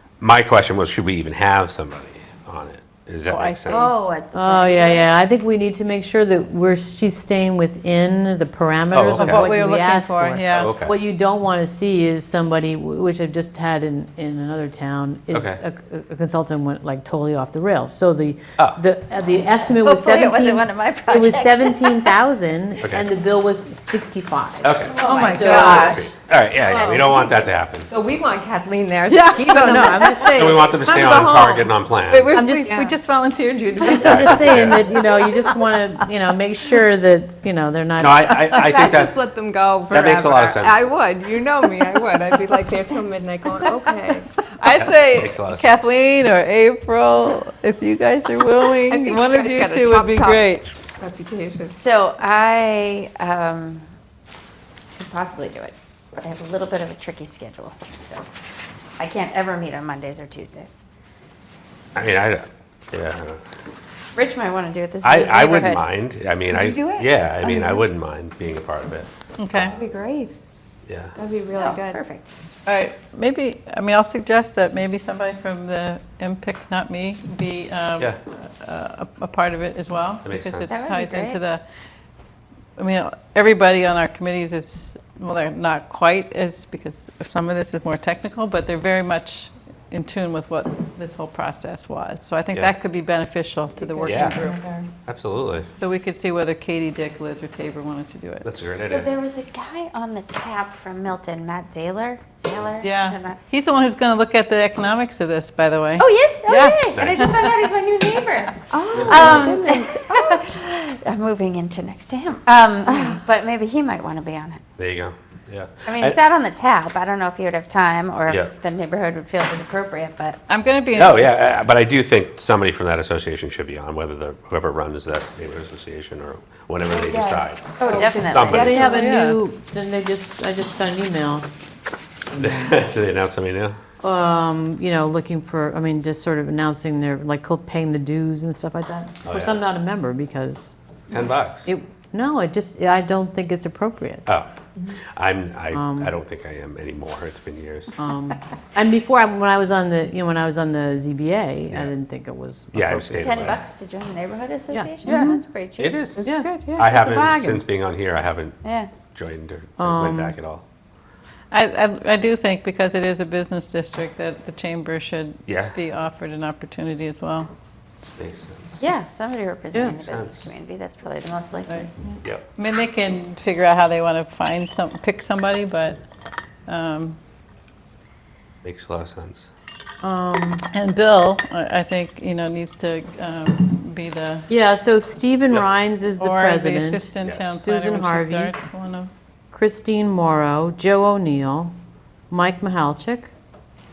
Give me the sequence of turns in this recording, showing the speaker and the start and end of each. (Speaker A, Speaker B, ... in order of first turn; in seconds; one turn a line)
Speaker A: 0.2-3.9
Speaker B: 3.3-4.0
Speaker C: 3.7-5.1
Speaker D: 4.3-26.1
Speaker A: 8.9-9.5
Speaker B: 9.1-10.7
Speaker A: 10.6-10.9
Speaker A: 15.3-15.6
Speaker C: 19.8-22.1
Speaker A: 24.6-27.9
Speaker E: 24.9-26.0
Speaker B: 25.0-25.6
Speaker C: 25.4-26.0
Speaker B: 26.7-27.1
Speaker C: 26.9-27.5
Speaker E: 27.9-31.1
Speaker B: 29.1-35.8
Speaker D: 29.4-31.7
Speaker A: 30.3-32.4
Speaker D: 32.3-33.0
Speaker E: 32.7-33.0
Speaker E: 33.7-34.1
Speaker A: 33.9-34.9
Speaker D: 34.0-38.6
Speaker A: 38.0-39.2
Speaker E: 38.5-44.3
Speaker A: 39.9-40.9
Speaker B: 44.6-50.7
Speaker A: 44.7-45.9
Speaker E: 48.8-50.5
Speaker E: 51.0-51.8
Speaker C: 51.7-53.9
Speaker C: 55.0-58.2
Speaker C: 59.0-60.8
Speaker A: 62.0-63.5
Speaker C: 64.2-65.8
Speaker A: 65.0-69.8
Speaker E: 66.5-67.8
Speaker B: 69.4-69.8
Speaker E: 69.8-70.3
Speaker A: 70.9-71.2
Speaker E: 71.2-72.0
Speaker C: 71.5-72.4
Speaker B: 72.7-81.6
Speaker A: 80.2-80.8
Speaker C: 80.7-81.4
Speaker B: 82.8-94.6
Speaker E: 93.8-94.9
Speaker A: 94.0-94.4
Speaker A: 95.0-95.7
Speaker B: 95.8-98.5
Speaker A: 98.4-99.1
Speaker C: 98.7-103.4
Speaker B: 102.8-107.6
Speaker C: 106.0-114.6
Speaker A: 106.9-107.5
Speaker E: 108.7-110.4
Speaker A: 108.9-109.6
Speaker A: 114.8-116.2
Speaker C: 115.9-120.4
Speaker B: 120.5-121.3
Speaker A: 120.9-129.0
Speaker C: 127.8-128.9
Speaker E: 127.9-128.1
Speaker D: 128.4-131.5
Speaker B: 128.7-129.4
Speaker A: 132.3-133.8
Speaker D: 132.4-132.8
Speaker D: 134.0-140.7
Speaker A: 139.3-139.6
Speaker A: 141.1-141.7
Speaker D: 141.7-144.3
Speaker A: 144.3-147.9
Speaker D: 145.7-146.1
Speaker D: 148.0-153.6
Speaker A: 152.7-153.6
Speaker C: 153.2-156.8
Speaker D: 154.7-155.5
Speaker A: 155.8-158.6
Speaker D: 156.2-157.7
Speaker C: 158.6-158.9
Speaker A: 159.1-160.6
Speaker D: 159.8-160.4
Speaker B: 161.5-167.5
Speaker A: 165.5-165.8
Speaker A: 168.2-168.8
Speaker C: 168.8-171.9
Speaker D: 169.7-170.0
Speaker A: 169.9-170.5
Speaker B: 172.6-176.0
Speaker B: 176.7-177.2
Speaker A: 178.6-179.5
Speaker D: 180.0-180.6
Speaker B: 180.7-184.5
Speaker D: 184.5-188.6
Speaker B: 186.2-189.1
Speaker A: 187.2-187.6
Speaker D: 189.5-191.7
Speaker D: 192.3-193.3